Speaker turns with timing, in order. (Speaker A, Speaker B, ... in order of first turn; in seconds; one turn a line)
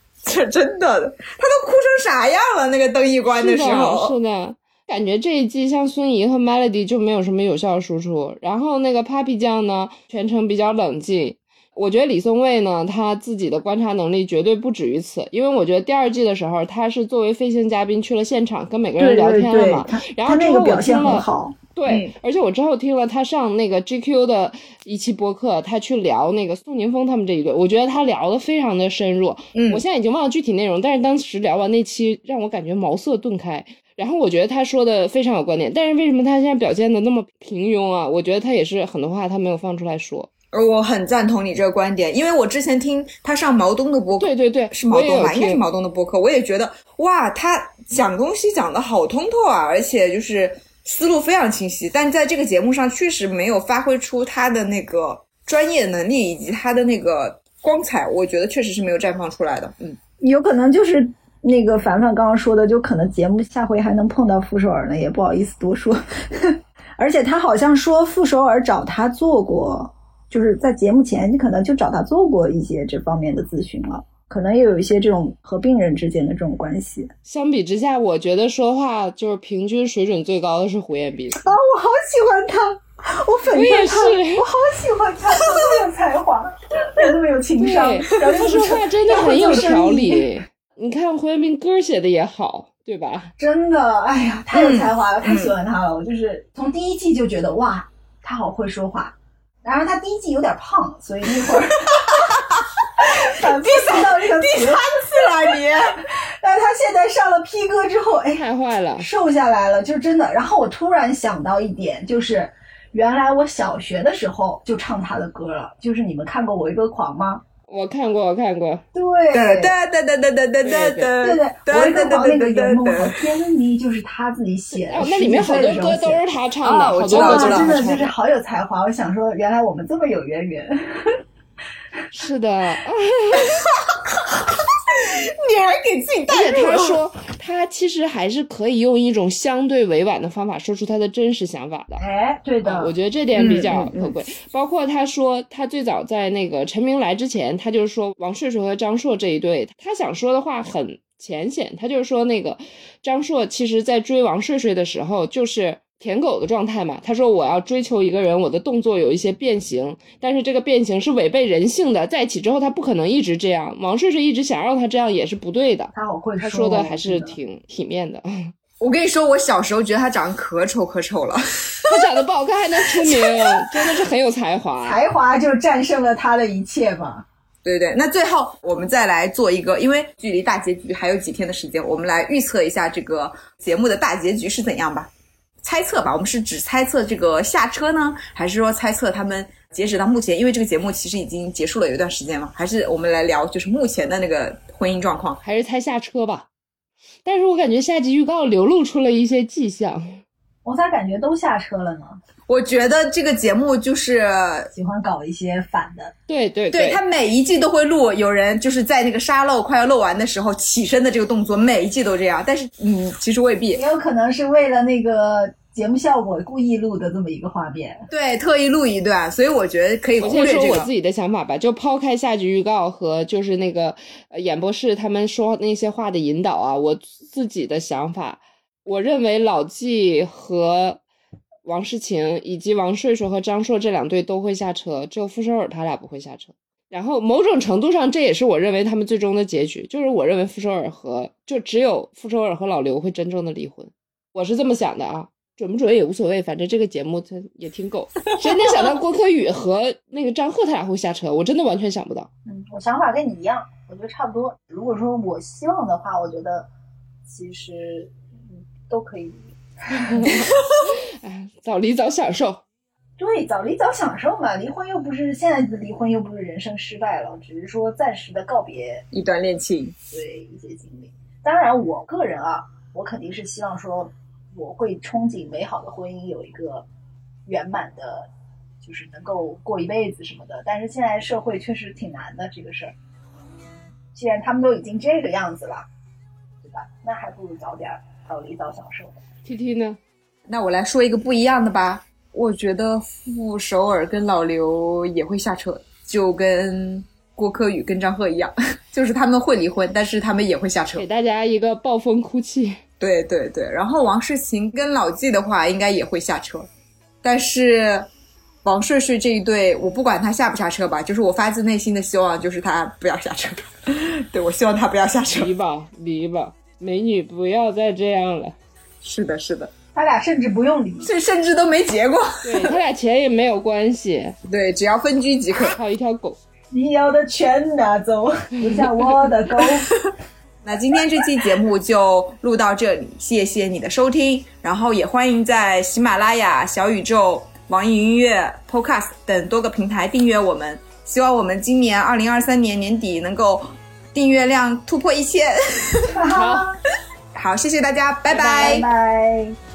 Speaker A: 0.2-4.2
Speaker B: 3.3-40.3
Speaker C: 19.0-21.6
Speaker A: 21.9-22.1
Speaker A: 29.5-29.8
Speaker A: 40.5-60.0
Speaker B: 44.2-45.6
Speaker C: 60.2-77.1
Speaker B: 77.2-81.5
Speaker C: 81.3-90.2
Speaker B: 83.5-84.5
Speaker B: 87.6-93.3
Speaker C: 93.4-102.2
Speaker A: 94.5-95.5
Speaker A: 102.1-106.0
Speaker C: 103.0-108.4
Speaker B: 108.3-109.1
Speaker C: 109.0-117.4
Speaker B: 117.7-118.8
Speaker C: 118.9-119.7
Speaker A: 119.3-123.3
Speaker B: 120.6-121.1
Speaker C: 121.2-126.2
Speaker B: 124.7-128.1
Speaker A: 126.6-128.0
Speaker C: 127.1-131.2
Speaker B: 132.1-133.5
Speaker A: 133.5-137.0
Speaker B: 136.3-142.0
Speaker C: 142.0-142.9
Speaker B: 142.6-168.5
Speaker A: 143.3-144.1
Speaker C: 165.9-167.3
Speaker A: 168.8-172.0
Speaker B: 171.9-175.0
Speaker A: 173.0-173.9
Speaker C: 174.8-177.2
Speaker A: 177.6-185.1
Speaker A: 185.6-195.4
Speaker B: 195.4-196.5
Speaker B: 197.2-200.2
Speaker C: 200.6-202.2
Speaker A: 202.5-204.7
Speaker C: 204.7-206.1
Speaker B: 206.3-207.0
Speaker A: 206.7-213.8
Speaker C: 213.7-218.1
Speaker A: 218.1-220.9
Speaker B: 220.2-231.0
Speaker B: 231.6-252.3
Speaker C: 252.4-256.7
Speaker C: 257.2-260.4
Speaker B: 260.0-262.6
Speaker C: 263.2-269.0
Speaker A: 269.1-269.9
Speaker C: 270.1-276.9
Speaker C: 277.4-278.3
Speaker C: 278.8-282.9
Speaker C: 284.1-285.9
Speaker C: 286.6-289.2
Speaker B: 289.4-290.0
Speaker A: 290.5-301.0
Speaker B: 301.0-302.8
Speaker A: 303.0-306.7
Speaker A: 307.2-308.1
Speaker A: 308.6-315.5
Speaker B: 315.3-318.6
Speaker A: 319.0-319.7
Speaker C: 319.9-321.1
Speaker A: 321.0-322.8
Speaker B: 322.4-324.4
Speaker A: 324.5-325.8
Speaker B: 325.6-326.4
Speaker C: 326.7-329.9
Speaker A: 329.7-330.1
Speaker A: 330.6-346.2
Speaker C: 346.1-346.8
Speaker B: 346.3-346.7
Speaker A: 347.3-348.9
Speaker C: 348.3-349.6